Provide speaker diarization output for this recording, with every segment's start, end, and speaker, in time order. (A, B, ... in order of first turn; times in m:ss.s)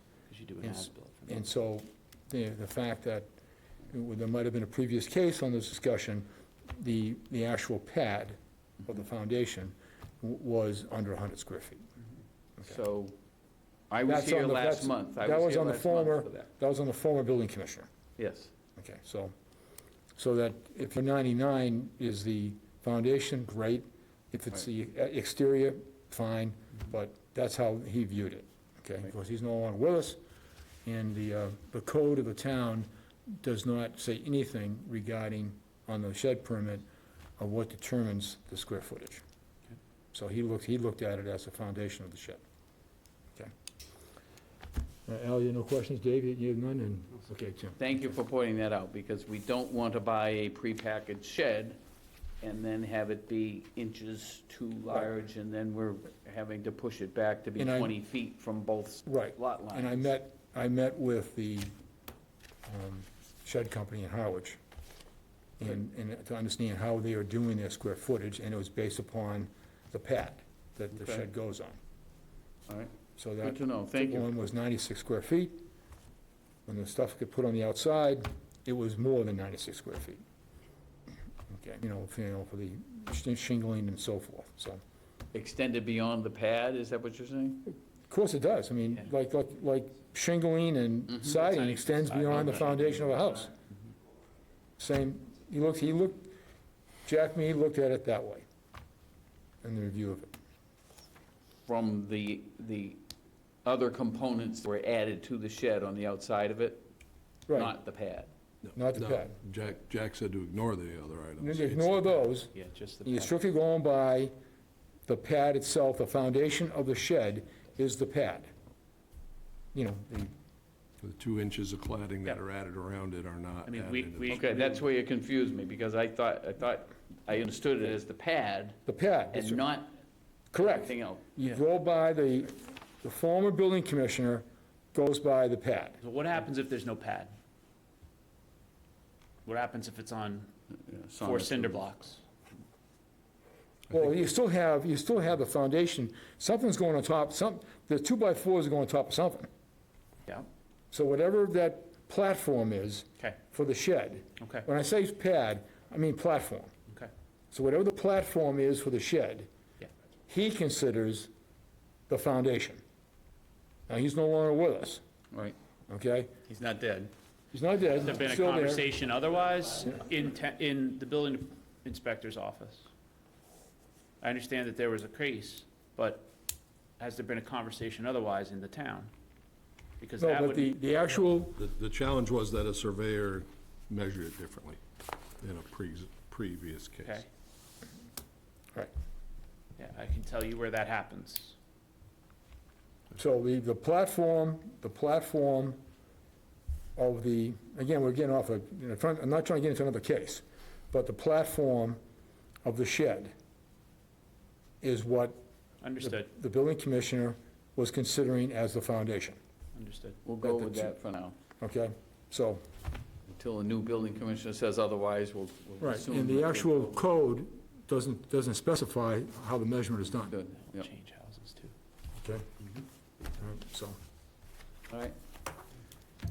0:00.3-0:01.4 A
0:00.6-0:03.3 B
0:03.9-0:11.8 B
0:12.6-0:13.2 C
0:13.9-0:16.5 C
0:14.0-0:17.9 B
0:18.2-0:18.5 C
0:18.8-0:19.3 B
0:20.2-0:30.2 B
0:30.8-0:36.8 B
0:37.4-0:39.2 B
0:40.1-0:42.4 B
0:45.1-0:48.1 B
0:47.8-0:51.8 C
0:52.4-1:00.1 C
0:57.6-0:58.0 B
0:59.0-1:01.7 B
1:02.6-1:04.6 B
1:05.6-1:11.8 B
1:11.0-1:11.2 C
1:12.7-1:14.4 C
1:13.2-1:15.7 B
1:16.7-1:20.2 B
1:21.5-1:24.8 B
1:25.3-1:27.6 C
1:28.1-1:33.5 B
1:31.3-1:33.5 A
1:34.8-1:36.3 B
1:37.0-1:38.4 B
1:39.6-1:40.3 B
1:41.6-1:43.0 C
1:43.6-1:46.8 C
1:47.5-1:47.7 B
1:47.5-1:48.3 C
1:48.6-1:52.0 D
1:48.8-1:49.4 B
1:51.4-1:52.5 B
1:52.5-1:53.4 A
1:53.0-1:54.3 B
1:55.1-1:58.5 B
1:59.7-2:00.3 B
2:01.0-2:04.4 D
2:03.6-2:04.9 A
2:04.3-2:08.8 C
2:08.8-2:09.6 B
2:09.3-2:09.9 C
2:10.5-2:16.0 B
2:10.6-2:11.2 C
2:16.0-2:17.3 A
2:19.4-2:20.5 A
2:20.8-2:21.8 C
2:21.2-2:22.2 A
2:23.9-2:29.5 B
2:30.9-2:36.7 B
2:34.4-2:34.6 A
2:37.5-2:39.5 B
2:40.3-2:41.3 B
2:42.1-2:42.8 B
2:43.9-2:45.0 B
2:45.9-2:46.3 B
2:46.5-2:47.1 C
2:47.5-2:48.9 B
2:48.0-2:52.9 A
2:54.2-2:56.3 A
2:57.0-2:59.1 A
3:00.0-3:00.7 A
3:00.2-3:01.6 B
3:01.6-3:04.8 D
3:05.4-3:07.2 D
3:09.8-3:11.6 A
3:13.1-3:15.8 B
3:17.0-3:22.0 B
3:22.6-3:23.3 B
3:24.8-3:25.4 B
3:25.8-3:26.3 A
3:26.0-3:29.4 B
3:29.7-3:30.2 A
3:30.2-3:31.4 C
3:30.4-3:30.9 B
3:31.6-3:32.6 B
3:33.3-3:37.0 C
3:35.8-3:40.3 B
3:40.1-3:40.9 C
3:40.6-3:41.7 A
3:42.2-3:42.4 B
3:43.4-3:44.0 B
3:44.9-3:45.1 C